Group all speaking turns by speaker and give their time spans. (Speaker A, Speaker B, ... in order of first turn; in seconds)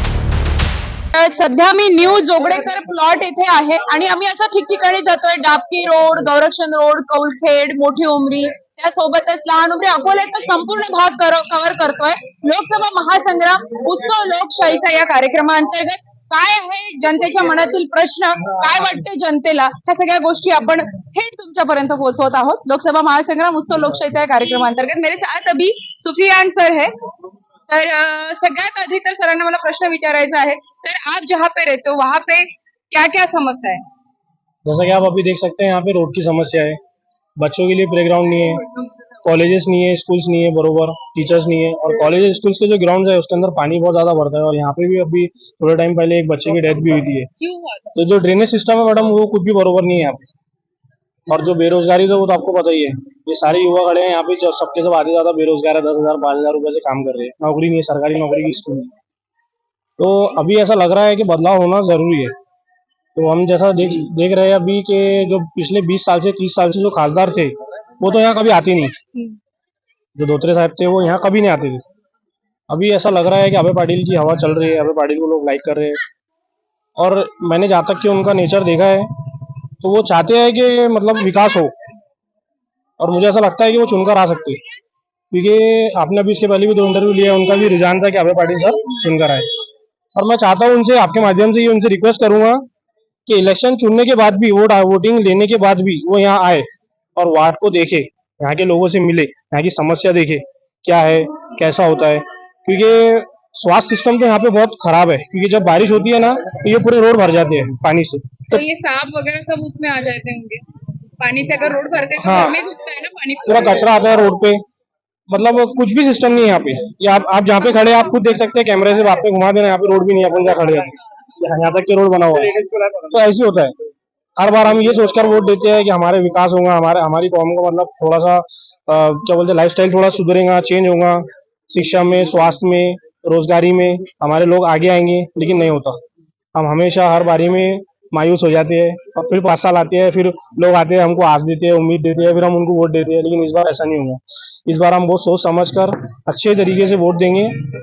Speaker A: 1.1-26.9, 27.7-33.8, 47.4-47.9, 108.5-110.6, 111.2-113.8
Speaker B: 34.6-36.8, 37.4-38.6, 39.2-47.3, 48.0-50.3, 51.3-58.9, 60.0-62.3, 63.1-68.9, 70.2-71.8, 72.7-76.0, 77.0-79.1, 79.8-81.7, 83.0-84.6, 85.3-89.4, 90.2-92.6, 93.3-96.6, 97.2-108.6, 112.2-112.5, 113.5-114.6, 115.3-123.7, 124.4-136.0, 136.5-147.5